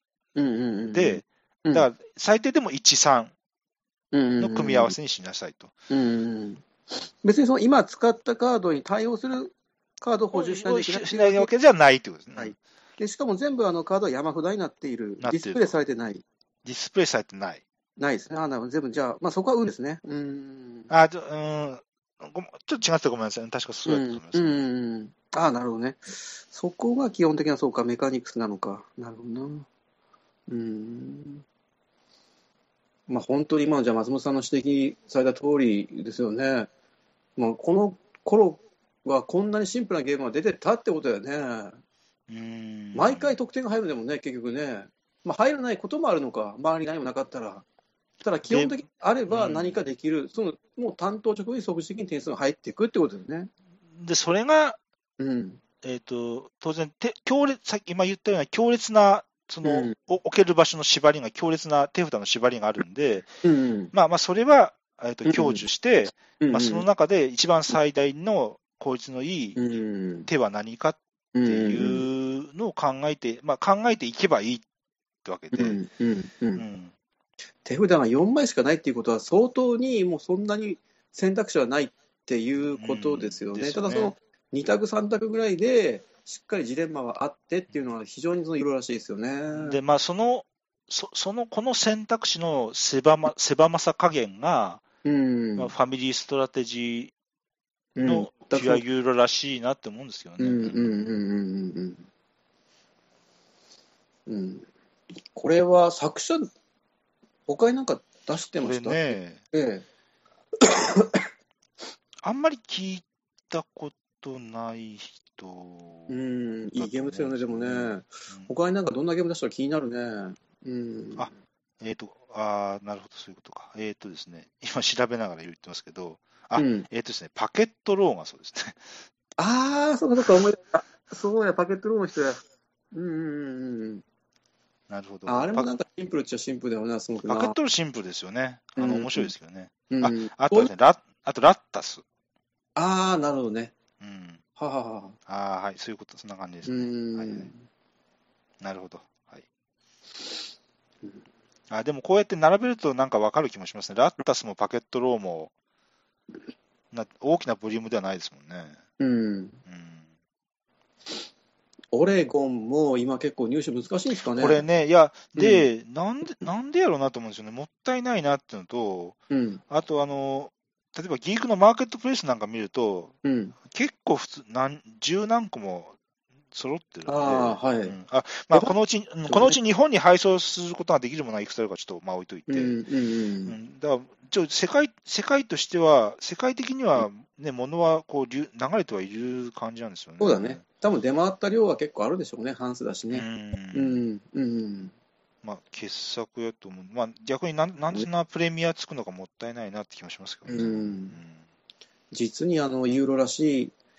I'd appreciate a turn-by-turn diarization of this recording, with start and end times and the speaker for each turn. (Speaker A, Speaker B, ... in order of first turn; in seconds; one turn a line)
Speaker A: 0.3-1.9
Speaker B: 0.9-3.3
Speaker A: 4.1-5.0
Speaker B: 4.4-5.7
Speaker A: 5.9-11.5
Speaker B: 10.3-12.5
Speaker A: 12.3-16.2
Speaker B: 15.2-15.8
Speaker B: 16.6-17.6
Speaker A: 18.0-20.9
Speaker B: 20.9-24.6
Speaker A: 23.9-29.7
Speaker A: 30.5-31.4
Speaker A: 33.1-36.7
Speaker A: 37.4-41.8
Speaker B: 42.3-43.4
Speaker A: 42.9-47.6
Speaker A: 48.2-53.5
Speaker B: 48.5-49.8
Speaker B: 53.9-54.8
Speaker A: 55.2-55.6
Speaker B: 55.8-63.3
Speaker A: 59.6-59.9
Speaker A: 63.4-63.9
Speaker B: 63.9-74.6
Speaker A: 65.2-65.7
Speaker A: 66.4-66.8
Speaker A: 69.5-70.3
Speaker A: 71.3-72.0
Speaker B: 75.2-75.8
Speaker A: 75.5-76.6
Speaker B: 76.5-76.9
Speaker A: 77.6-89.8
Speaker B: 82.7-84.1
Speaker B: 89.5-94.8
Speaker A: 95.0-95.7
Speaker B: 95.5-97.1
Speaker A: 98.0-98.8
Speaker B: 98.0-101.1
Speaker A: 100.4-102.0
Speaker A: 104.3-104.7
Speaker A: 105.3-106.5
Speaker A: 107.5-109.8
Speaker B: 108.6-109.4
Speaker A: 110.6-111.3
Speaker B: 112.2-116.2
Speaker A: 116.1-121.3
Speaker B: 116.8-118.5
Speaker B: 121.2-128.8
Speaker A: 126.5-126.9
Speaker A: 129.4-134.0
Speaker B: 134.9-135.7
Speaker A: 135.2-137.6
Speaker B: 137.3-142.0
Speaker A: 138.8-139.3
Speaker A: 139.9-140.7
Speaker A: 142.8-143.7
Speaker B: 144.0-144.4
Speaker A: 144.6-145.2
Speaker B: 145.2-147.5
Speaker A: 146.6-147.6
Speaker B: 148.6-149.4
Speaker B: 151.7-155.5
Speaker B: 156.9-158.8
Speaker A: 159.0-159.6
Speaker B: 159.7-160.1
Speaker A: 161.9-164.6
Speaker B: 164.3-169.2
Speaker A: 165.3-165.6
Speaker A: 169.3-169.6
Speaker B: 169.7-175.9
Speaker A: 173.2-173.6
Speaker B: 176.5-182.8
Speaker A: 177.1-177.9
Speaker A: 179.3-179.6
Speaker A: 182.5-183.6
Speaker B: 183.4-190.6
Speaker A: 190.2-194.9
Speaker B: 193.1-194.0
Speaker B: 195.4-201.4
Speaker A: 200.5-201.2
Speaker A: 202.1-203.8